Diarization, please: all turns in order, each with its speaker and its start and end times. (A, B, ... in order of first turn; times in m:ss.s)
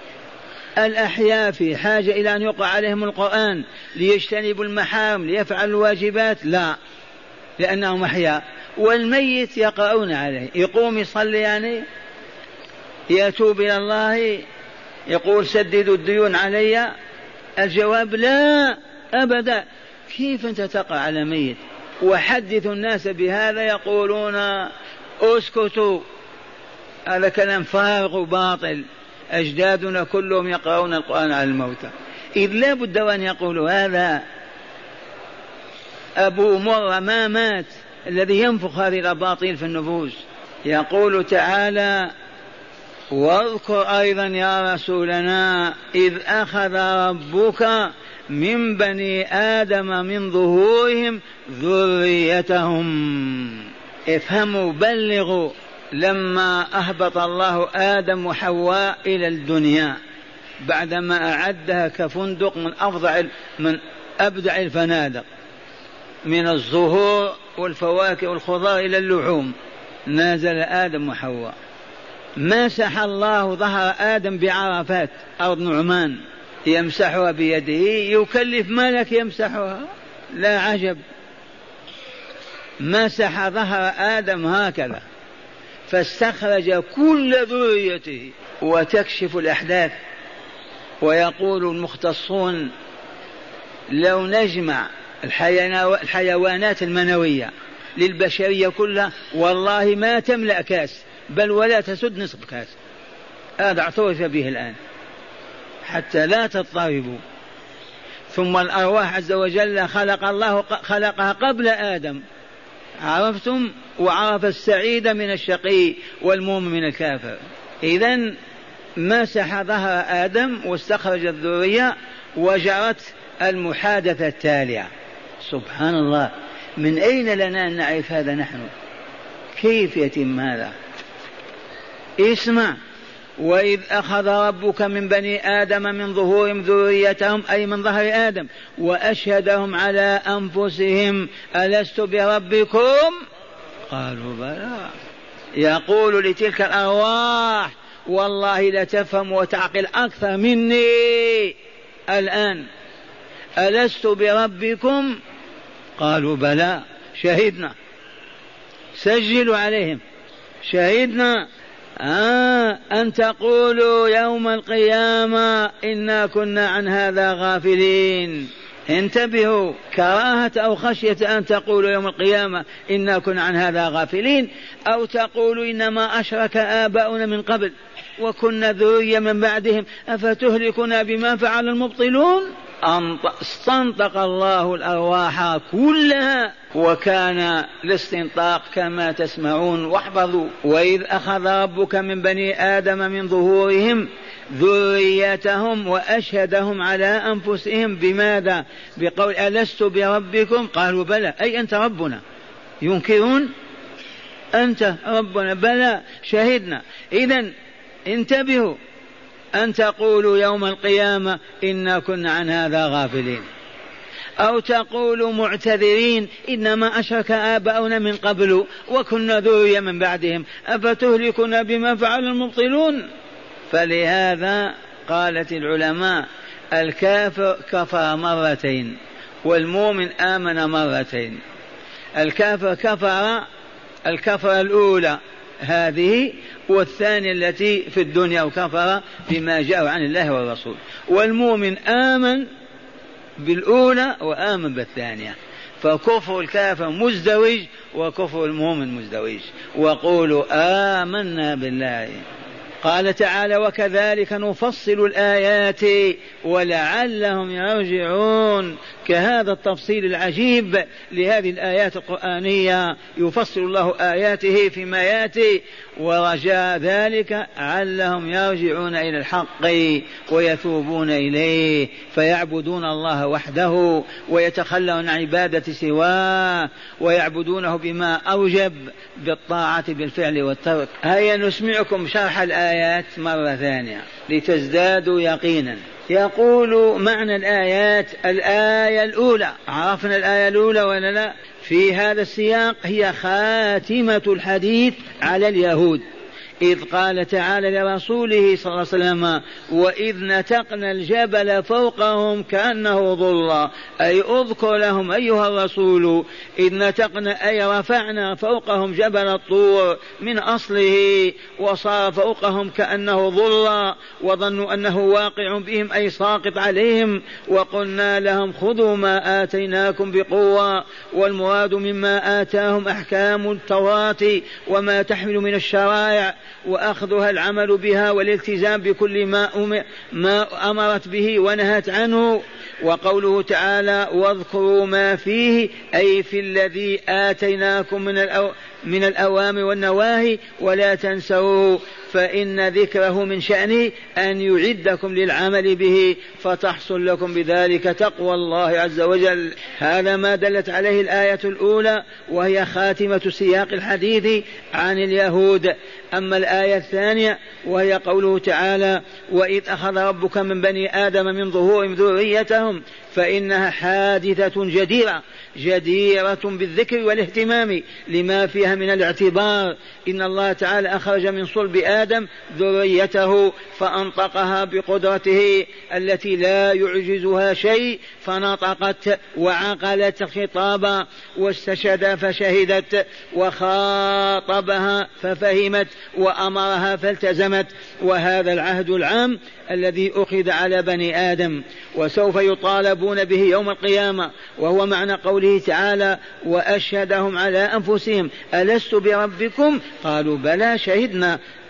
0:00.8-0:06.8 A
0:07.6-0:11.8 A
0:13.1-0:14.4 A
0:15.1-0:16.9 A
0:17.6-0:24.7 A
0:25.2-0:26.0 A
0:27.1-0:34.2 A
0:36.2-0:42.1 A
0:43.1-1:00.0 A
1:00.6-1:05.2 A
1:06.2-1:09.5 A
1:10.1-1:11.5 A
1:12.4-1:21.0 A
1:22.8-1:25.0 A
1:25.9-1:29.9 A
1:31.0-1:32.7 A
1:33.9-1:42.8 A
1:43.6-1:44.8 A
1:45.8-1:47.2 A
1:48.3-1:52.2 A
1:53.0-1:58.3 A
1:59.0-2:04.9 A
2:05.4-2:08.7 A
2:09.6-2:10.7 A
2:12.2-2:12.8 A
2:13.4-2:23.2 A
2:23.9-2:24.9 A
2:25.6-2:31.5 A
2:32.1-2:32.6 A
2:33.6-2:35.1 A
2:36.0-2:37.7 A
2:39.0-2:40.0 A
2:40.6-2:41.4 A
2:42.0-3:22.2 A
3:22.8-3:23.5 A
3:24.5-3:27.5 A
3:28.1-3:28.8 A
3:29.5-3:33.4 A
3:34.4-3:43.0 A
3:43.7-3:51.4 A
3:52.2-3:53.4 A
3:54.0-4:02.5 A
4:03.4-4:12.2 A
4:12.8-4:56.0 A
4:56.6-6:41.4 A